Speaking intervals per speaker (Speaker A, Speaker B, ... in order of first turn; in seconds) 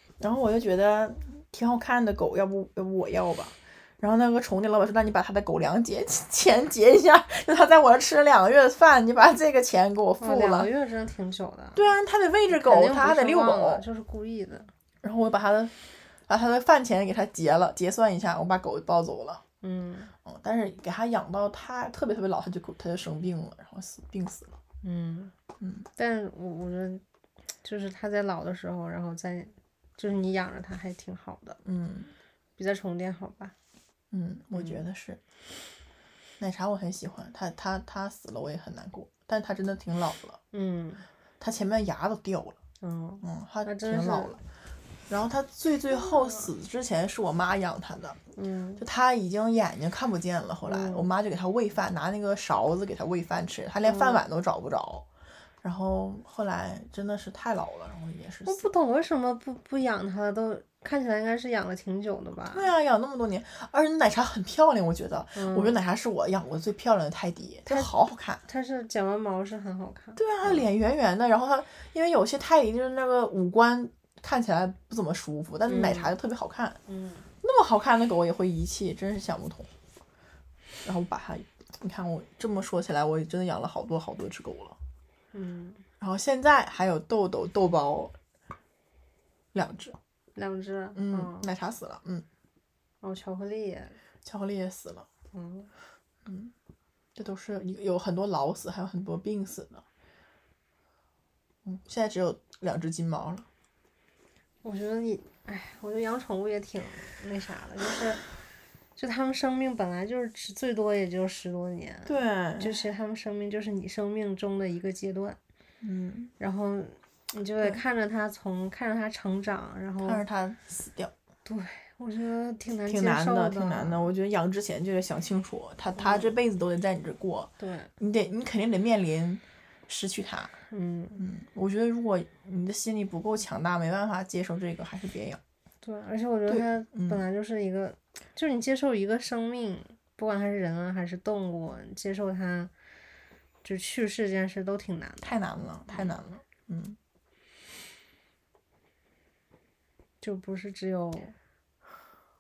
Speaker A: 0.2-10.7, 11.8-13.8, 15.0-15.7, 16.3-19.4, 20.2-24.6, 25.6-25.9, 31.6-32.1, 34.1-35.2, 36.4-40.4, 41.4-42.6, 43.2-44.4, 45.1-48.2, 48.8-55.1, 55.6-58.7, 62.5-68.4, 70.2-76.8, 77.4-79.7, 80.8-84.8, 86.0-88.1, 89.5-90.0, 91.0-92.3, 94.2-95.1, 96.2-96.5, 97.2-99.8, 101.7-103.5, 112.1-112.8, 115.8-116.3, 120.0-121.1, 122.9-130.5, 131.2-135.4, 136.5-137.2, 145.2-147.0
Speaker B: 10.2-11.8, 12.5-14.7, 19.6-20.1, 24.8-25.3, 26.0-27.0, 27.6-31.6, 32.6-33.5, 34.5-34.8, 40.5-41.0, 42.8-44.4, 46.0-46.5, 48.4-48.8, 50.7-51.1, 53.8-54.2, 58.5-62.7, 65.3-65.8, 67.7-67.9, 68.5-70.7, 75.7-76.2, 76.9-77.3, 85.3-85.8, 90.4-91.5, 93.0-94.0, 95.3-95.7, 104.6-108.2, 109.0-115.4, 116.4-120.2, 121.5-124.1, 126.0-126.4, 127.6-127.9, 130.7-131.2, 135.8-142.7, 143.6-146.2, 150.2-151.3